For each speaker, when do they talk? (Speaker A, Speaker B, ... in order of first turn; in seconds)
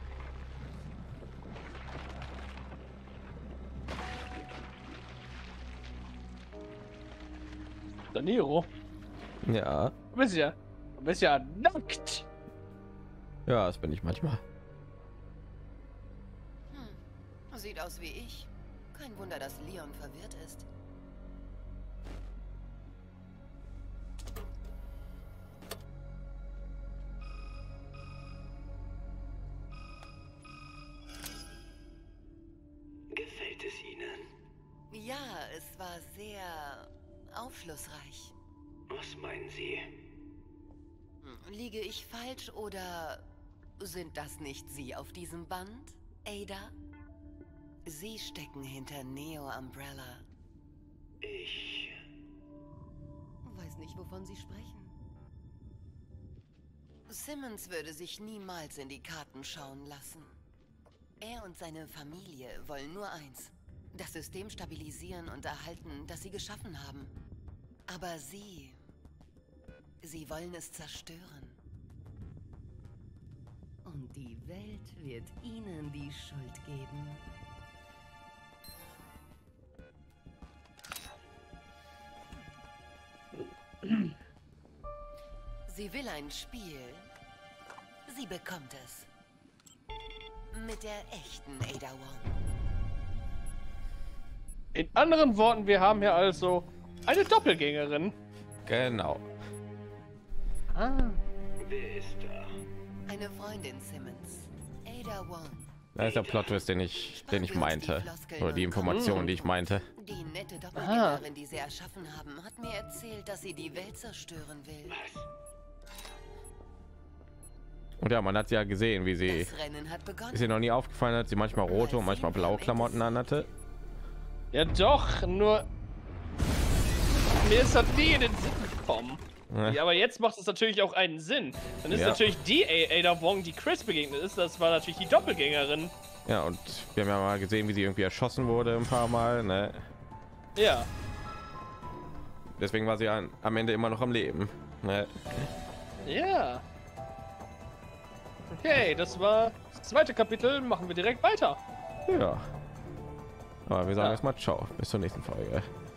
Speaker A: 8.1-8.7, 10.1-12.2, 94.7-98.2, 100.7-101.2, 108.9-109.3, 110.7-111.2, 124.5-125.7, 127.4-135.9, 140.6-140.9, 146.0-146.6, 148.6-151.6, 154.0-154.2
Speaker B: 9.4-9.9, 13.4-14.4, 98.6-99.2, 105.9-109.9, 118.0-119.5, 120.3-123.5, 129.5-129.8, 131.9-132.4, 136.2-139.8, 142.6-145.5, 152.1-152.5, 153.7-155.7
Speaker C: 16.7-20.7, 34.9-38.3, 41.2-43.2, 43.8-46.7, 47.9-50.2, 53.4-55.0, 57.1-60.4, 61.2-67.1, 67.9-68.8, 70.0-71.6, 73.8-77.3, 85.7-87.1, 88.0-89.1, 90.5-92.3, 103.1-105.7, 107.1-115.0, 119.2-120.5, 121.7-123.5
Speaker D: 33.1-34.3, 38.9-39.9, 51.2-52.0, 101.6-102.5, 106.0-106.6, 114.9-115.2